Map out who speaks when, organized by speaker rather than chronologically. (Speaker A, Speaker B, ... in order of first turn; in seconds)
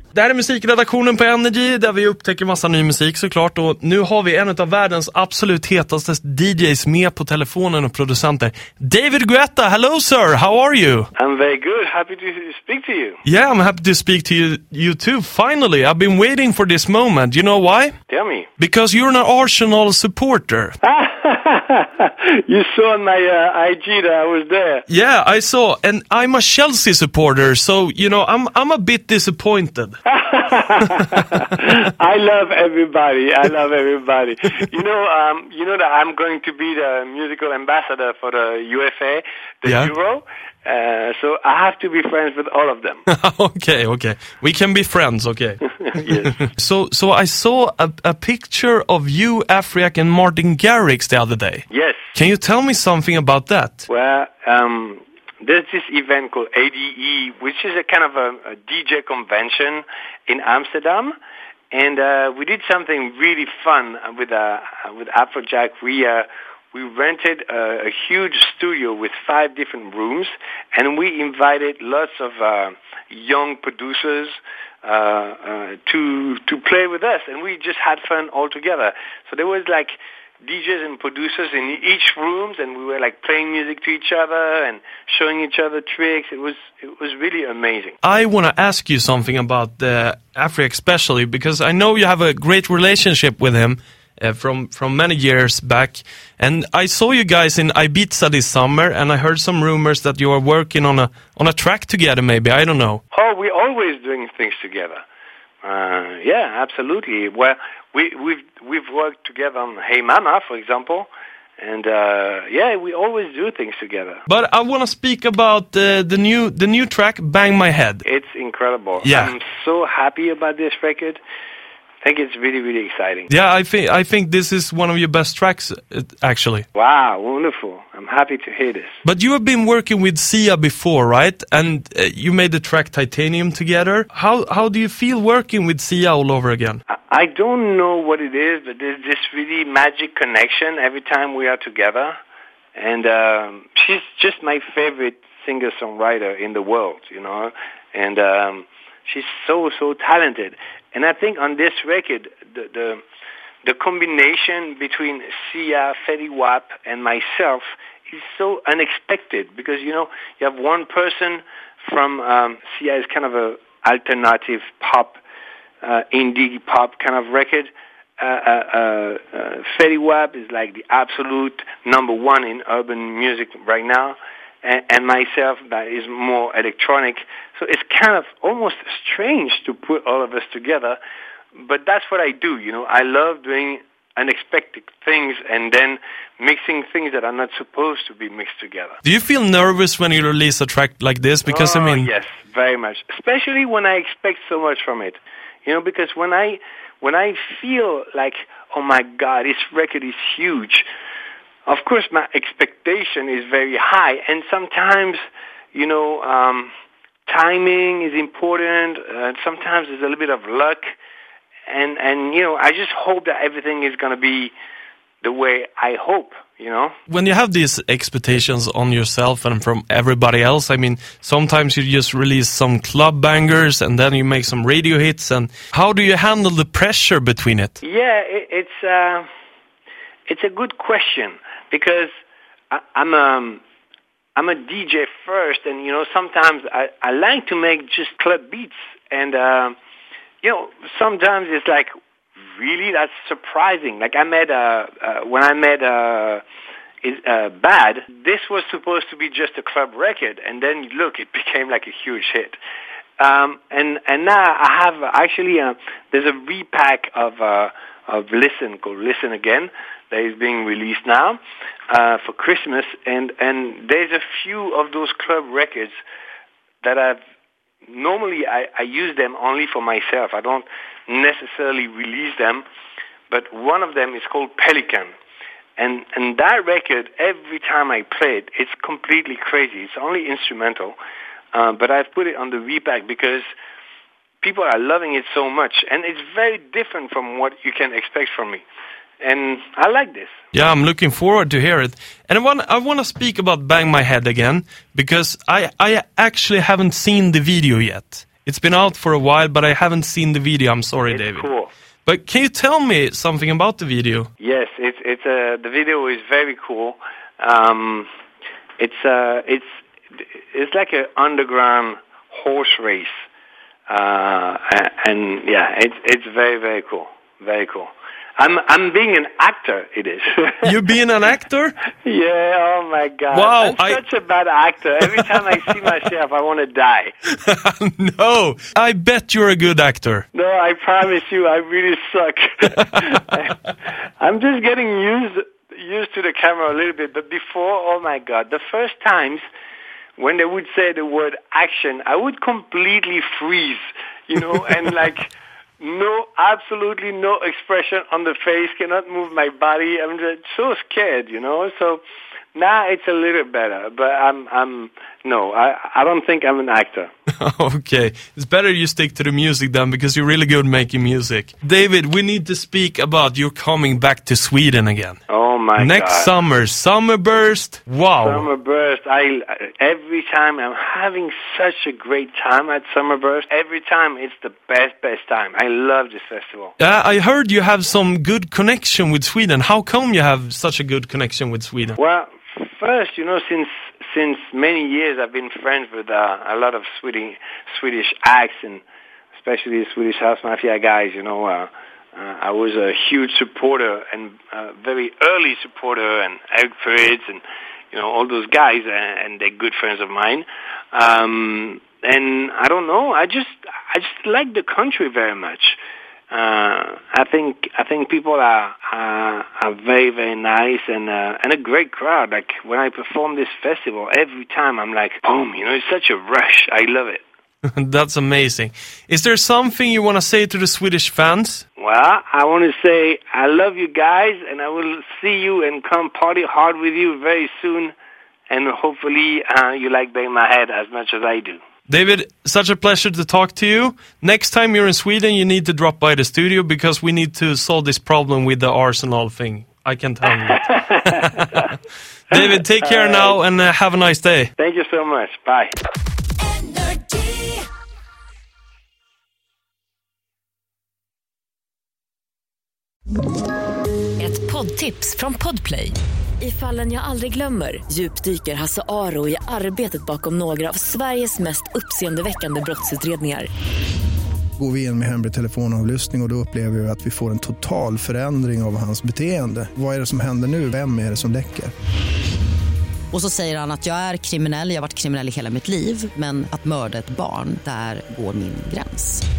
Speaker A: 0.1-11.1, 13.2-17.9, 18.6-20.8, 24.9-30.0, 30.9-31.4, 43.1-53.9, 88.0-103.0, 114.3-118.0, 119.0-119.3, 123.3-126.7, 129.0-136.8, 189.0-192.1, 217.1-227.8, 290.5-301.5, 302.1-304.3, 320.6-321.8, 323.3-324.0, 327.3-330.2, 357.4-365.2, 365.8-368.5, 376.8-382.0, 417.7-421.6, 431.9-441.7, 442.3-444.5
Speaker B: 11.2-13.2, 18.1-18.5, 20.8-24.8, 30.1-43.0, 45.9-46.3, 51.7-52.1, 53.9-61.1, 61.7-88.0, 103.1-105.0, 105.6-114.2, 118.0-121.2, 122.0-123.3, 126.7-129.0, 136.9-142.2, 142.7-153.0, 153.6-165.2, 165.8-181.0, 181.5-189.0, 191.5-200.9, 201.7-205.2, 205.7-206.7, 207.3-210.9, 211.7-214.5, 215.2-216.9, 227.8-229.2, 230.3-232.1, 232.7-233.6, 234.3-239.8, 240.4-241.9, 242.5-246.4, 247.0-252.6, 253.2-266.0, 266.8-267.2, 267.9-272.6, 273.3-275.1, 275.8-281.0, 281.5-283.5, 284.4-288.6, 289.2-290.3, 301.1-301.7, 304.4-308.1, 308.8-313.1, 313.9-320.7, 322.0-327.1, 330.3-339.4, 340.2-345.3, 345.8-352.0, 352.5-357.1, 365.3-366.3, 368.2-376.7, 382.0-388.8, 389.4-405.8, 406.3-417.2, 421.8-427.9, 428.5-431.6, 440.5-441.3, 442.3-443.4, 444.6-445.7
Speaker C: 446.4-447.6, 454.2-463.5
Speaker D: 464.6-471.7
Speaker E: 473.1-479.2